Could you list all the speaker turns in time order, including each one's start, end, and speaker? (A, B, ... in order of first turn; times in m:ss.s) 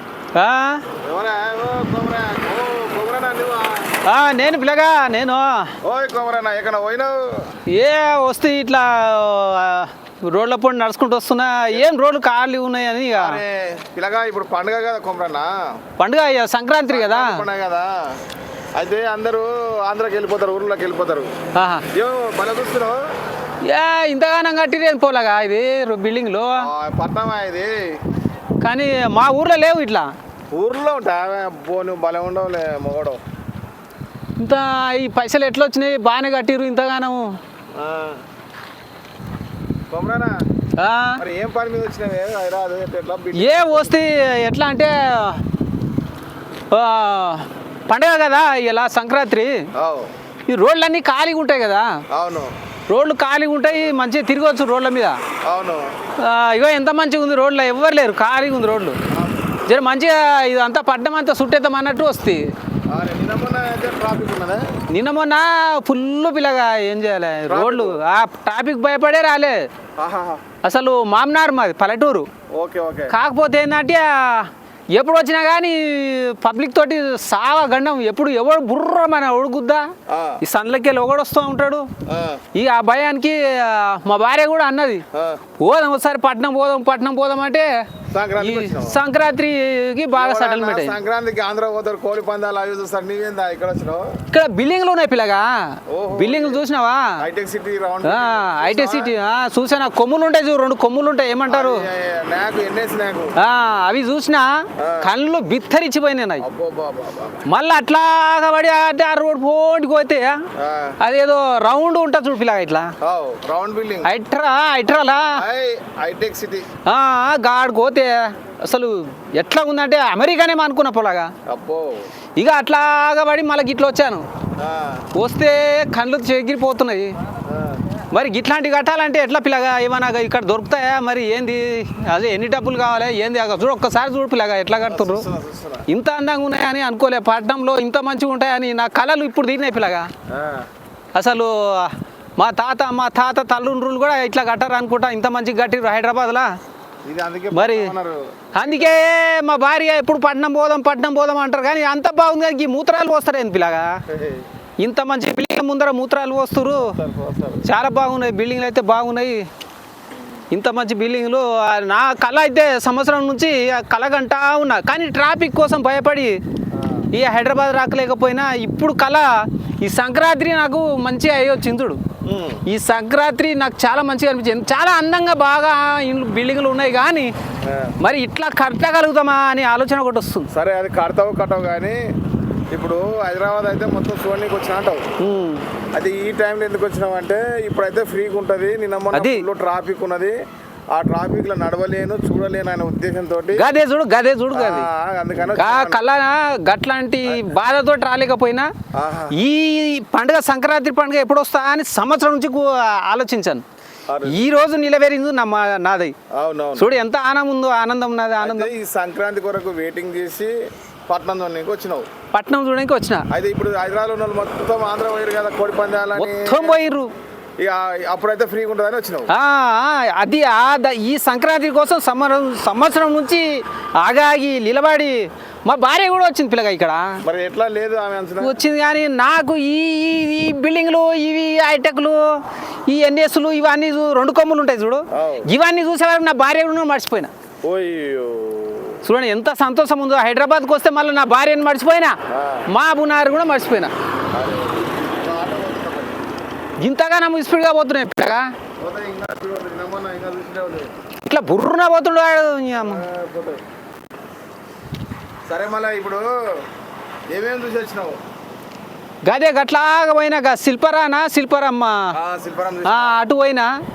0:00.3-0:00.8 A
0:01.0-0:03.9 B
0:04.0-0:05.7 A
0:05.8-0:07.5 B
0:07.7-0:13.4 A
0:13.1-0:15.6 B
0:16.0-0:17.4 A
0:16.9-0:18.2 B
0:18.7-0:21.3 B
0:21.5-0:21.8 A
0:21.9-0:23.0 B
0:23.7-0:26.7 A
0:26.6-0:28.0 B
0:28.6-0:30.1 A
0:30.5-0:33.2 B
0:34.4-0:37.4 A
0:37.7-0:38.2 B
0:39.9-0:40.4 B
0:40.8-0:41.2 A
0:41.2-0:44.0 B
0:43.3-0:45.4 A
0:46.7-0:49.7 A
0:49.8-0:50.1 B
0:50.5-0:52.0 A
0:52.1-0:52.5 B
0:52.9-0:55.2 A
0:53.7-0:54.0 B
0:55.4-0:55.9 B
0:56.2-0:59.0 A
0:59.1-0:59.4 B
0:59.6-1:02.5 A
1:02.9-1:04.6 B
1:04.9-1:09.7 A
1:07.5-1:08.0 B
1:10.0-1:10.4 B
1:10.6-1:12.3 A
1:12.5-1:13.1 B
1:13.1-1:19.9 A
1:20.1-1:20.4 B
1:20.4-1:21.9 A
1:22.0-1:22.4 B
1:22.5-1:25.0 A
1:25.1-1:25.4 B
1:25.6-1:27.7 A
1:28.1-1:29.0 B
1:28.4-1:31.0 A
1:30.1-1:34.1 B
1:34.3-1:37.2 A
1:35.9-1:36.6 B
1:37.2-1:39.1 B
1:38.0-1:41.8 A
1:41.5-1:43.3 B
1:43.4-1:46.4 A
1:44.8-1:45.1 B
1:46.4-1:47.4 B
1:47.4-1:50.4 A
1:50.6-1:51.0 B
1:51.0-1:52.9 A
1:53.0-1:54.1 B
1:54.0-1:55.4 A
1:55.3-1:56.7 B
1:56.8-2:01.3 A
2:01.4-2:02.1 B
2:02.4-2:04.2 A
2:04.6-2:05.0 B
2:05.1-2:07.2 A
2:07.4-2:07.8 B
2:08.1-2:15.2 A
2:14.8-2:15.8 B
2:15.9-2:20.1 A
2:20.3-2:20.6 B
2:21.1-2:26.5 A
2:27.0-2:29.0 B
2:27.5-2:27.9 A
2:28.5-2:34.0 A
2:34.1-2:34.5 B
2:34.8-2:37.0 A
2:36.7-2:37.6 B
2:37.6-2:39.5 A
2:40.5-2:46.4 A
2:46.7-2:47.0 B
2:47.1-2:52.0 A
2:52.2-2:52.6 B
2:52.6-2:57.3 A
2:57.6-2:57.9 B
2:58.0-3:00.5 A
3:00.5-3:02.0 B
3:02.7-3:05.0 B
3:05.2-3:05.6 A
3:05.9-3:10.4 B
3:09.1-3:09.4 A
3:10.9-3:13.7 B
3:13.5-3:14.9 A
3:14.5-3:16.0 B
3:15.5-3:18.7 A
3:18.9-3:19.4 B
3:19.3-3:23.6 A
3:24.1-3:24.4 B
3:24.2-3:26.1 A
3:26.3-3:26.9 B
3:26.8-3:28.7 A
3:28.4-3:30.5 B
3:31.1-3:32.0 B
3:32.3-3:33.2 A
3:33.3-3:36.8 B
3:36.2-3:37.1 A
3:37.6-3:39.3 B
3:39.3-3:47.2 A
3:47.2-3:48.6 B
3:48.4-3:57.3 A
3:55.1-3:55.5 B
3:57.6-3:59.0 B
3:59.0-4:02.2 A
4:02.3-4:02.7 B
4:02.7-4:03.9 A
4:04.3-4:06.2 B
4:06.8-4:08.5 A
4:08.8-4:10.9 B
4:11.2-4:13.0 A
4:12.8-4:13.6 B
4:15.5-4:16.3 B
4:17.3-4:18.2 B
4:19.2-4:22.1 A
4:22.1-4:23.2 B
4:22.8-4:23.7 A